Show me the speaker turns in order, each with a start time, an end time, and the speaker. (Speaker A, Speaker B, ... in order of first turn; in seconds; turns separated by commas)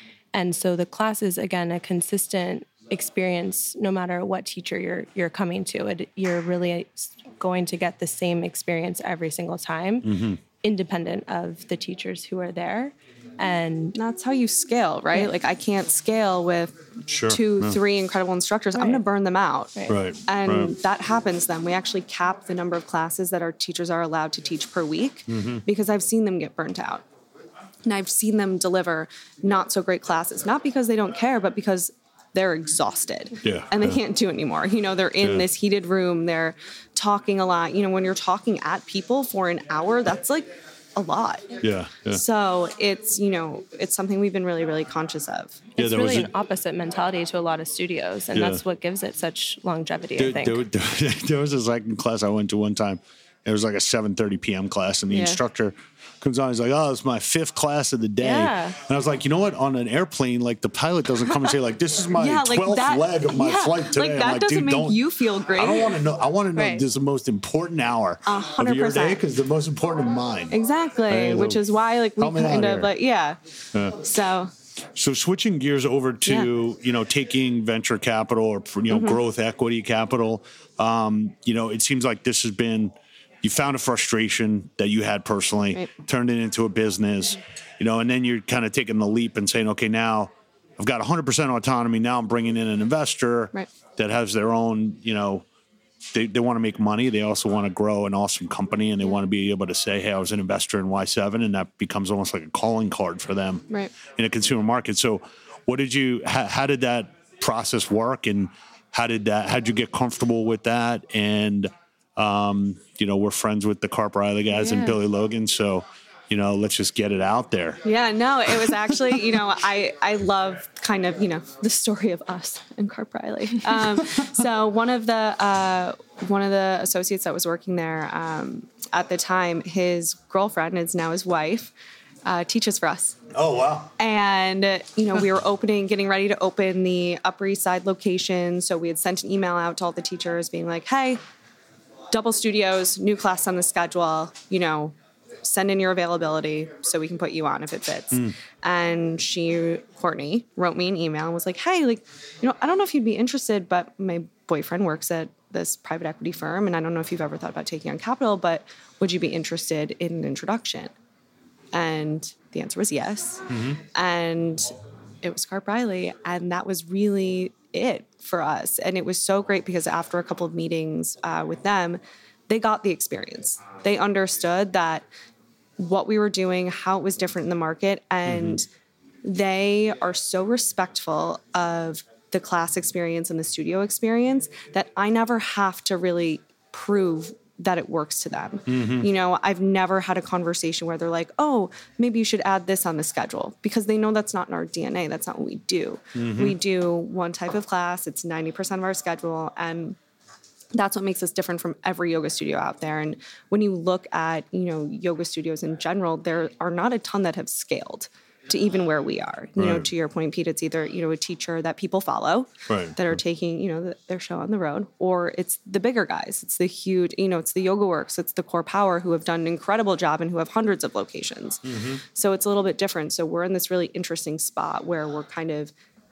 Speaker A: 0.3-14.0, Speaker B: 10.0-10.4, Speaker C: 13.9-27.0, Speaker B: 17.1-17.8, Speaker A: 18.8-19.0, Speaker B: 19.9-20.7, Speaker B: 25.3-25.6, Speaker C: 27.9-45.7, Speaker B: 33.4-34.0, Speaker B: 35.2-35.5, Speaker B: 41.6-42.2, Speaker A: 45.8-50.6, Speaker B: 45.8-46.3, Speaker B: 48.3-48.6, Speaker B: 50.2-65.0, Speaker C: 55.1-55.4, Speaker A: 58.2-58.8, Speaker C: 62.1-66.0, Speaker B: 65.5-70.6, Speaker A: 66.5-66.8, Speaker C: 68.2-69.2, Speaker C: 70.5-73.4, Speaker B: 71.1-71.6, Speaker B: 72.2-72.9, Speaker B: 73.7-74.0, Speaker C: 74.0-74.5, Speaker B: 74.9-95.4, Speaker C: 78.9-79.2, Speaker B: 96.1-117.8, Speaker C: 114.6-115.0, Speaker C: 117.8-131.7, Speaker C: 132.2-133.2, Speaker B: 133.3-133.9, Speaker C: 134.0-141.2, Speaker C: 142.1-160.9, Speaker C: 161.7-164.7, Speaker B: 163.5-163.8, Speaker C: 165.2-175.1, Speaker C: 175.8-178.7, Speaker B: 178.2-178.6, Speaker C: 179.2-200.0, Speaker B: 188.7-189.1, Speaker B: 196.2-196.6, Speaker C: 200.7-225.7, Speaker B: 209.6-209.9, Speaker B: 212.7-213.2, Speaker B: 221.7-222.0